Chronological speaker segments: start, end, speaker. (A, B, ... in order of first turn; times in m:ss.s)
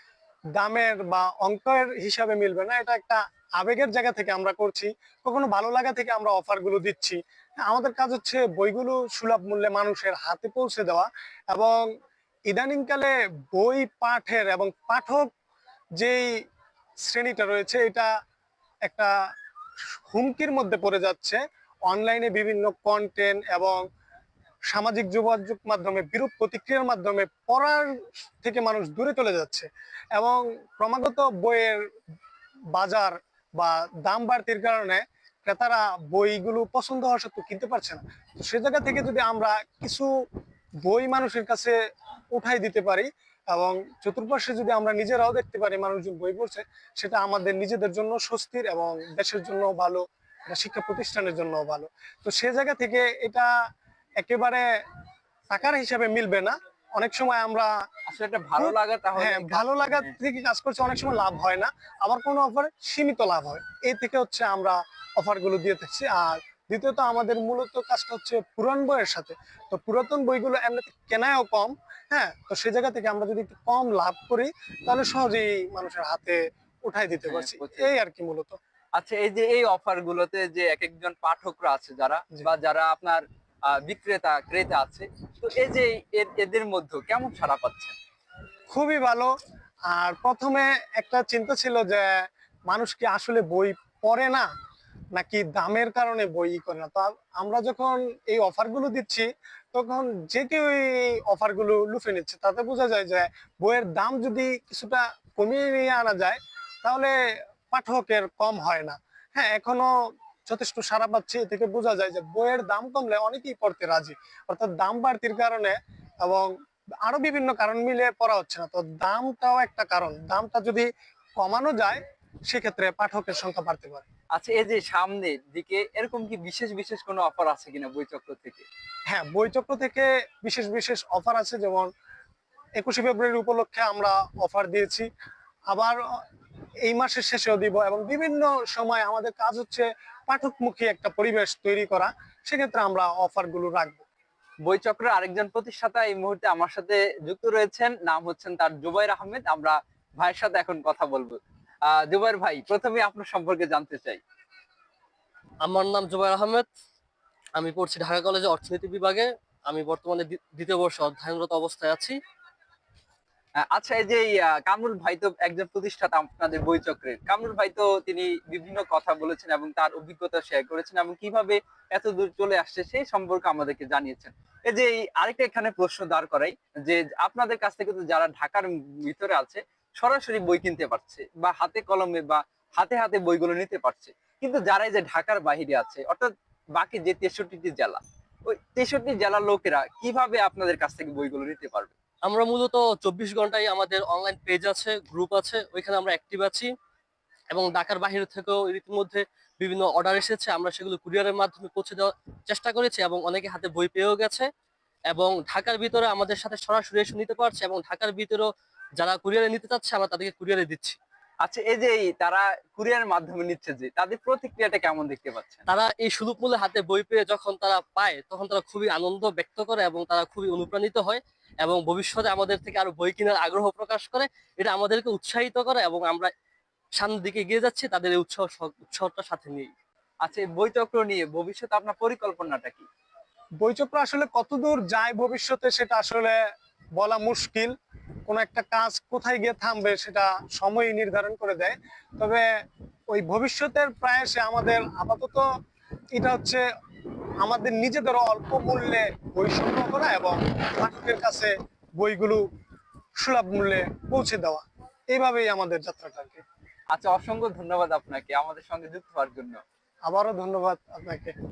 0:00.6-0:11.9 A
0:12.5-0:15.3 A
0:16.0-0:16.3 A
0:17.0-0:18.1 A
0:18.9-0:19.1 A
0:20.1-0:23.8 A
0:24.7-0:31.9 A
0:32.8-0:40.1 A
0:40.8-0:41.8 A
0:42.3-0:53.5 A
0:54.2-0:54.6 A
0:55.5-0:57.7 A
0:58.1-1:00.1 B
0:58.6-1:18.6 A
1:17.3-1:17.9 B
1:19.0-1:28.0 B
1:28.7-1:29.3 A
1:29.9-1:34.5 A
1:35.2-1:47.1 A
1:47.7-1:49.9 A
1:50.5-1:56.5 A
1:57.0-2:04.0 A
2:04.4-2:08.7 B
2:09.1-2:11.9 A
2:12.8-2:15.1 A
2:15.7-2:16.0 A
2:16.9-2:24.0 A
2:24.6-2:34.2 B
2:35.6-2:36.7 C
2:37.6-2:42.2 C
2:43.6-3:11.9 B
3:12.2-3:16.7 C
3:17.5-3:24.5 C
3:25.1-3:31.0 C
3:31.4-3:35.6 B
3:35.7-3:46.3 C
3:47.0-3:49.7 C
3:50.2-3:52.9 B
3:53.6-3:56.4 A
3:57.0-3:57.7 A
3:58.3-4:02.4 A
4:03.1-4:05.5 A
4:06.1-4:06.6 A
4:07.4-4:12.4 A
4:13.2-4:16.4 A
4:16.9-4:19.6 B
4:20.1-4:21.3 A